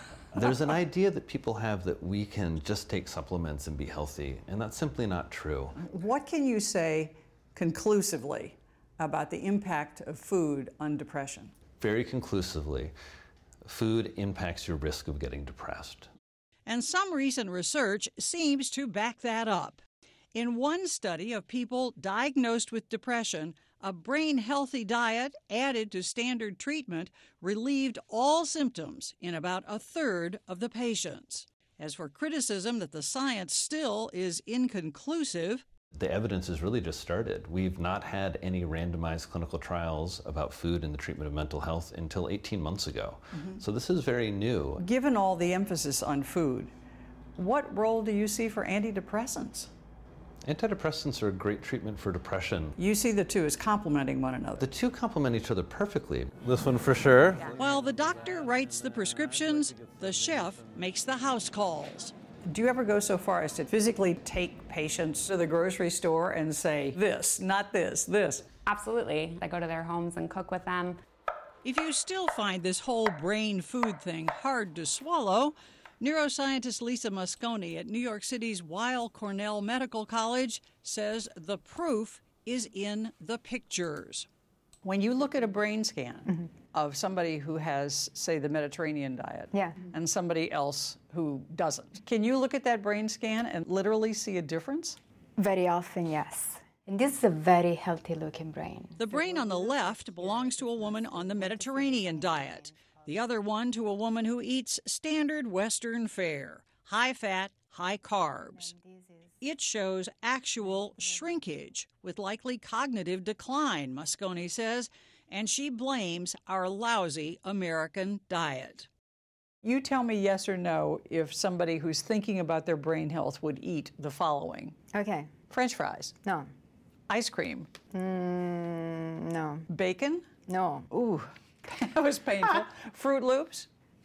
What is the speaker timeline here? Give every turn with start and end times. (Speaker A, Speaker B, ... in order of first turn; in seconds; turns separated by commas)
Speaker A: 0.3-5.8, Speaker B: 5.8-11.5, Speaker A: 11.8-12.9, Speaker A: 13.6-16.1, Speaker C: 16.7-19.8, Speaker C: 20.3-35.6, Speaker A: 35.9-44.8, Speaker B: 43.3-43.6, Speaker B: 44.8-46.7, Speaker B: 47.4-49.7, Speaker A: 50.4-52.7, Speaker B: 52.8-54.6, Speaker A: 54.6-57.5, Speaker C: 57.5-62.1, Speaker B: 62.4-68.5, Speaker D: 68.7-71.0, Speaker C: 71.6-84.3, Speaker B: 84.8-95.0, Speaker E: 89.5-89.8, Speaker E: 95.4-99.0, Speaker C: 99.0-108.7, Speaker C: 109.4-118.9, Speaker B: 119.6-124.8, Speaker E: 124.9-125.3, Speaker B: 125.5-126.1, Speaker E: 126.2-126.5, Speaker B: 127.1-127.7, Speaker E: 127.9-129.6, Speaker B: 129.7-130.3, Speaker E: 130.5-130.9, Speaker B: 130.9-133.7